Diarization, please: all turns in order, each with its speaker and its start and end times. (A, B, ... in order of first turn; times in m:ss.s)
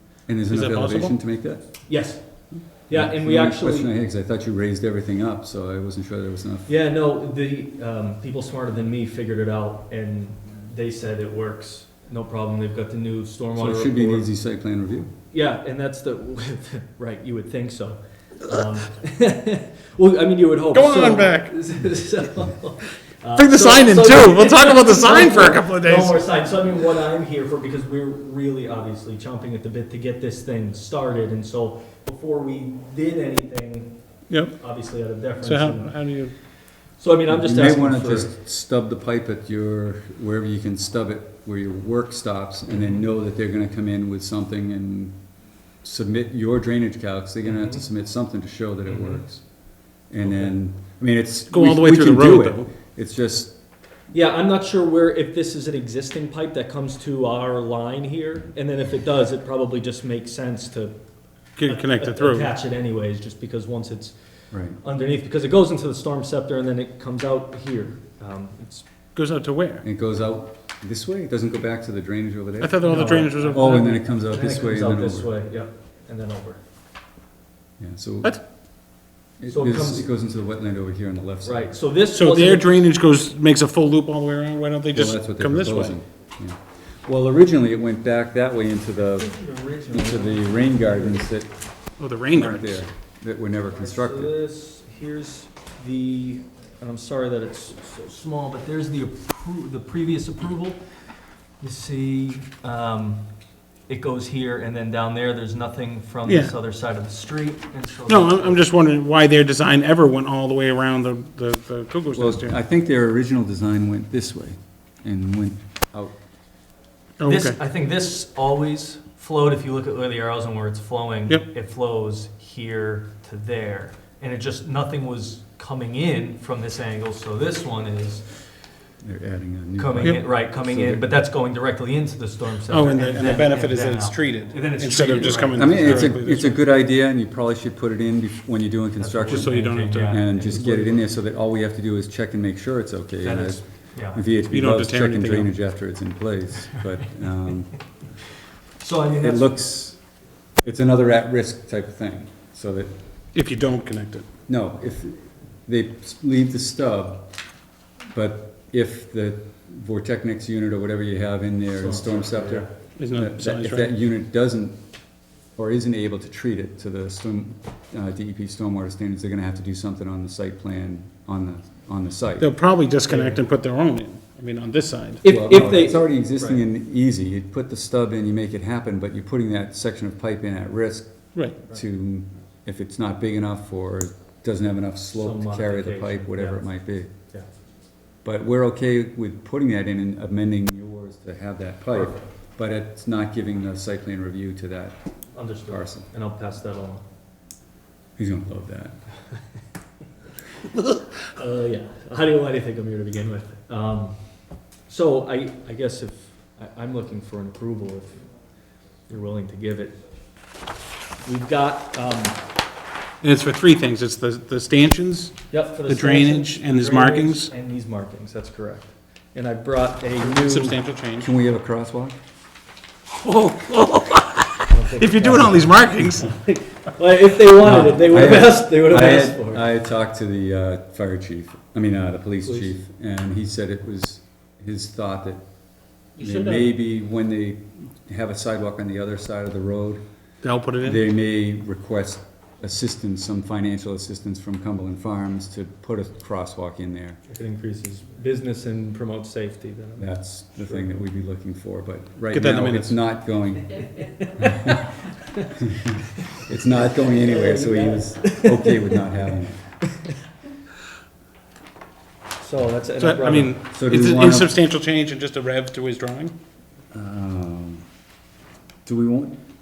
0:00.3-0:01.9 A
0:00.5-0:01.2 B
0:01.9-0:03.9 C
0:02.9-0:06.7 A
0:06.7-0:14.3 C
0:13.6-0:15.1 A
0:15.3-0:34.0 C
0:20.7-0:21.5 B
0:23.4-0:26.2 B
0:34.3-0:34.6 B
0:34.5-0:36.1 C
0:35.4-0:36.3 B
0:37.0-0:38.4 C
0:37.3-0:45.2 A
0:42.7-0:43.0 C
0:45.8-0:49.6 A
0:47.4-0:47.8 C
0:48.9-0:49.2 C
0:50.1-0:53.6 A
0:50.2-0:50.5 C
0:51.5-0:52.7 B
0:54.1-1:01.0 C
1:01.6-1:02.5 B
1:01.6-1:04.2 C
1:04.5-1:04.8 A
1:04.7-1:08.9 C
1:09.2-1:09.8 B
1:09.8-1:15.3 A
1:12.6-1:13.9 B
1:12.8-1:16.6 C
1:17.8-1:18.5 A
1:19.4-1:21.8 A
1:19.5-1:20.1 C
1:21.4-1:22.8 C
1:22.2-1:26.0 B
1:24.9-1:29.3 A
1:29.2-1:31.3 C
1:29.9-1:31.6 A
1:32.0-1:32.8 B
1:32.3-1:34.3 A
1:33.7-1:40.9 C
1:41.6-1:43.2 C
1:43.9-1:48.7 C
1:46.3-1:46.5 B
1:48.1-1:52.6 B
1:52.2-1:56.1 A
1:57.2-1:57.6 B
1:57.2-2:08.3 C
2:09.0-2:11.1 A
2:09.8-2:16.2 C
2:12.7-2:16.6 B
2:15.6-2:19.5 A
2:19.0-2:21.1 C
2:19.3-2:20.2 B
2:20.1-2:27.7 A
2:23.2-2:24.2 C
2:24.5-2:25.5 B
2:28.8-2:29.6 C
2:29.2-2:30.0 A
2:30.6-2:33.0 A
2:33.4-2:34.3 B
2:34.5-2:37.3 A
2:38.1-2:44.8 A
2:41.8-2:42.7 C
2:43.0-2:43.9 B
2:45.6-2:52.5 A
2:52.4-2:55.2 B
2:53.1-2:53.4 C
2:55.2-2:56.6 C
2:55.2-3:07.1 A
3:05.1-3:06.7 C
3:08.2-3:15.0 A
3:11.9-3:12.2 C
3:15.4-3:17.0 C
3:15.7-3:16.1 A
3:18.2-3:19.0 A
3:21.2-3:24.2 C
3:24.9-3:28.3 C
3:29.1-3:30.0 C
3:31.2-3:32.4 C
3:33.2-3:37.5 B
3:35.5-3:40.8 C
3:40.2-3:41.3 B
3:41.2-3:42.2 A
3:43.2-3:46.4 B
3:44.7-3:49.7 C
3:47.6-3:55.4 A
3:56.2-3:56.7 B
3:56.2-4:00.0 A
4:00.4-4:01.0 B
4:00.8-4:07.2 A
4:07.3-4:10.9 C
4:10.0-4:14.8 A
4:12.3-4:12.9 B
4:14.2-4:14.7 C
4:15.6-4:19.8 A
4:17.2-4:19.0 C
4:22.4-4:23.6 C
4:23.0-4:26.4 B
4:23.7-4:24.5 A
4:26.9-4:27.8 A
4:28.9-4:29.4 A